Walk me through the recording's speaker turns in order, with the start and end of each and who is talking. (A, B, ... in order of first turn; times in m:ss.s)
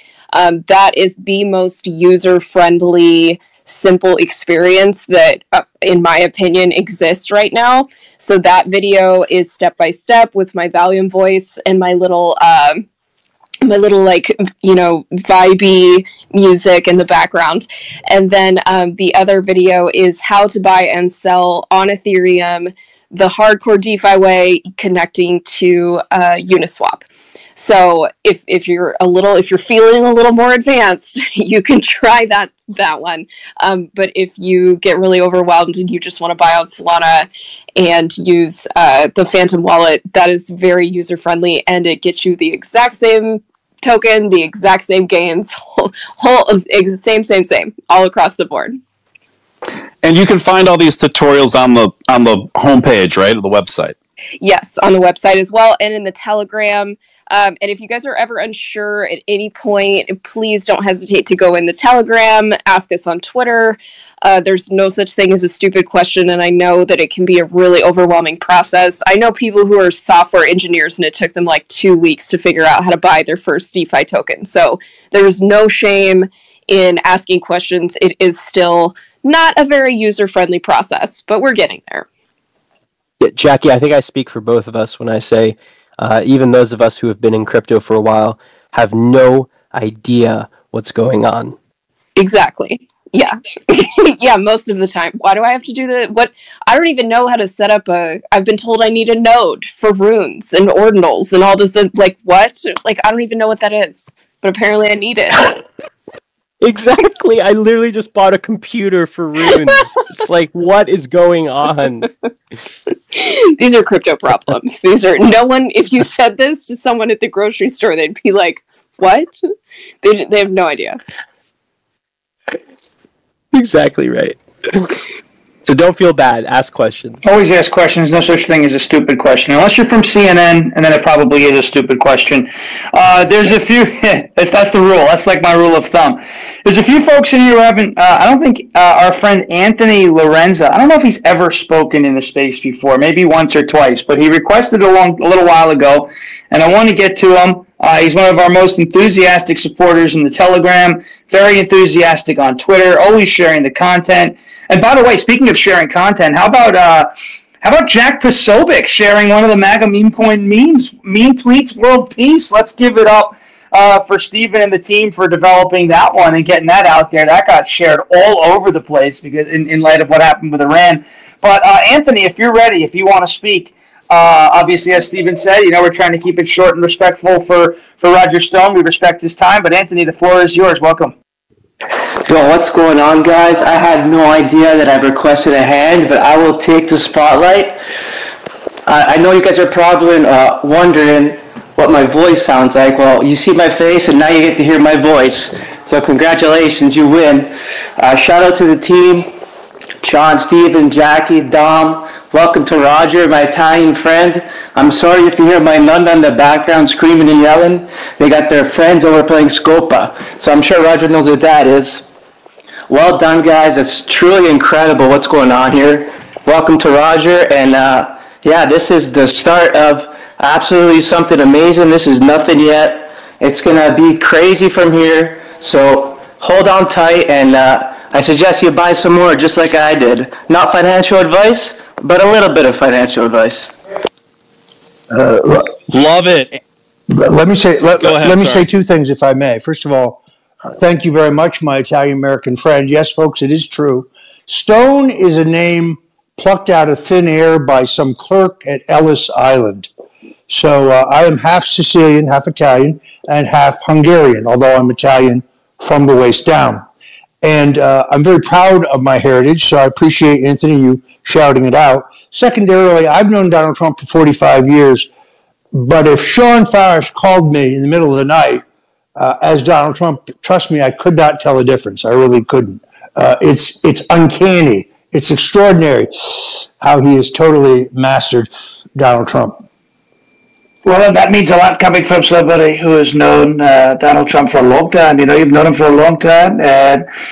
0:00.3-0:12.9 A
0:13.6-0:48.8 A
0:50.0-0:54.0 B
0:54.4-1:22.1 A
1:23.2-1:31.6 C
1:32.2-1:45.5 A
1:46.6-1:52.1 C
1:53.2-1:59.4 A
2:00.0-2:01.0 A
2:03.5-2:05.0 C
2:05.6-2:07.2 C
2:07.2-2:37.1 D
2:37.6-3:01.1 D
3:02.2-3:07.8 E
3:08.9-3:19.4 E
3:20.0-3:32.0 E
3:32.9-3:53.8 E
3:55.1-3:55.7 F
3:55.9-3:56.6 B
3:57.1-4:09.9 F
3:58.0-3:58.7 B
4:10.5-4:16.8 F
4:17.4-4:25.1 F
4:25.7-4:28.6 F
4:29.2-4:39.6 F
4:40.8-4:47.0 D